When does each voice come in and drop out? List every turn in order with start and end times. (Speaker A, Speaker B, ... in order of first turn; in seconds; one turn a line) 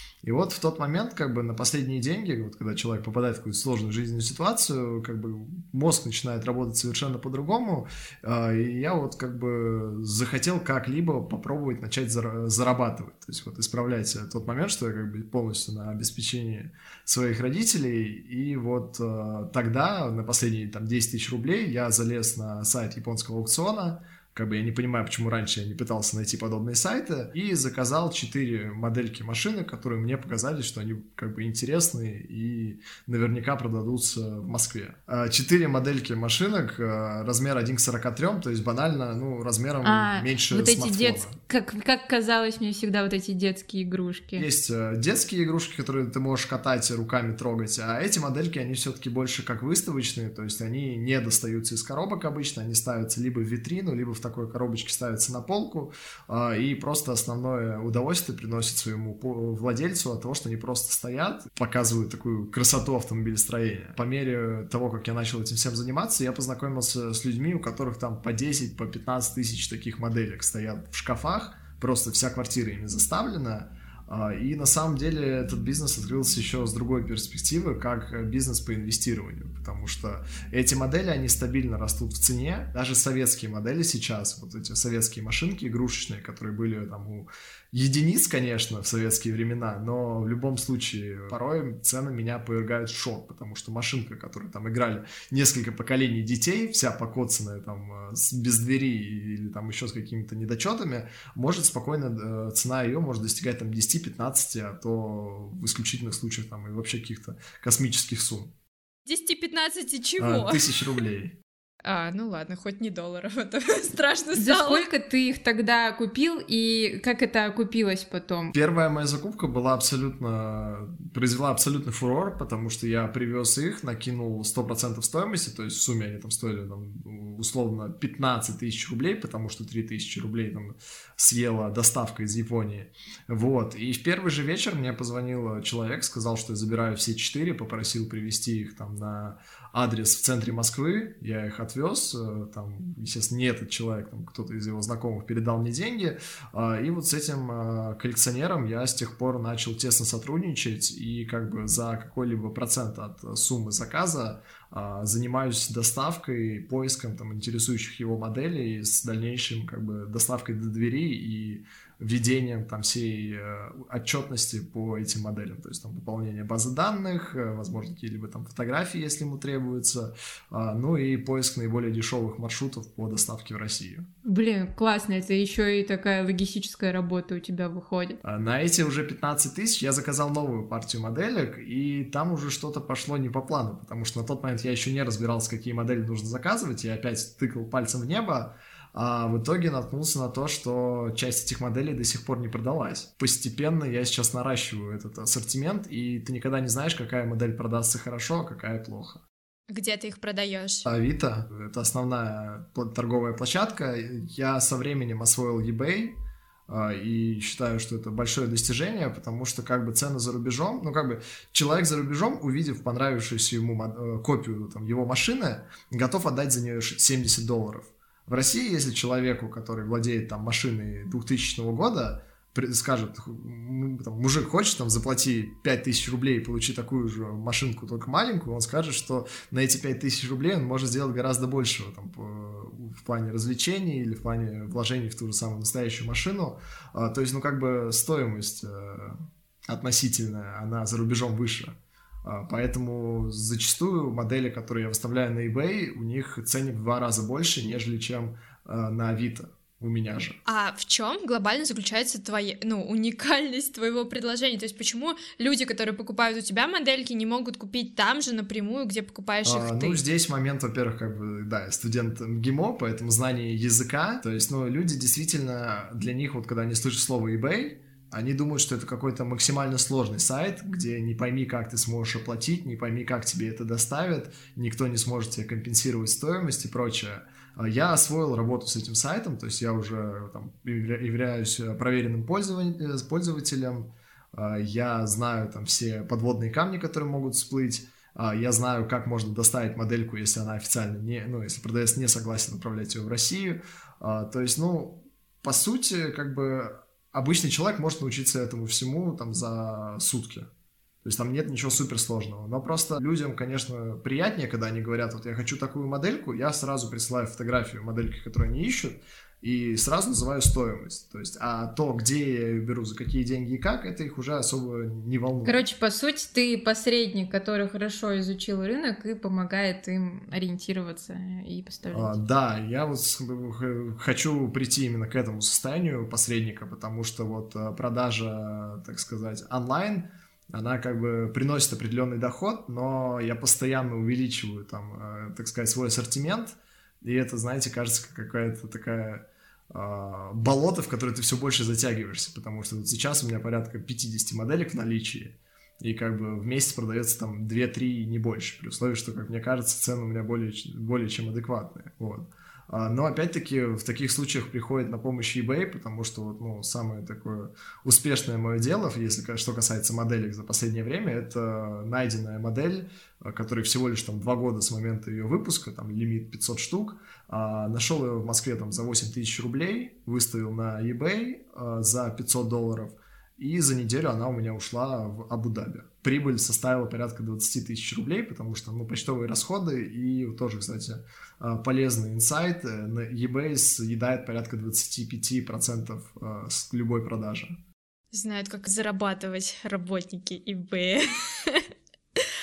Speaker A: 0.2-41.4
Speaker B: 39.8-44.5
Speaker A: 44.4-108.5
Speaker C: 109.1-110.8
Speaker A: 110.2-111.4
Speaker C: 111.8-114.8
Speaker B: 114.4-118.5
Speaker A: 118.5-174.1
Speaker B: 174.2-178.2
Speaker A: 178.2-199.2
Speaker C: 199.7-200.9
Speaker A: 200.9-250.4
Speaker C: 250.5-260.0
Speaker A: 259.4-300.5
Speaker A: 301.0-315.6
Speaker B: 315.4-322.2
Speaker A: 321.9-387.6
Speaker C: 388.1-392.3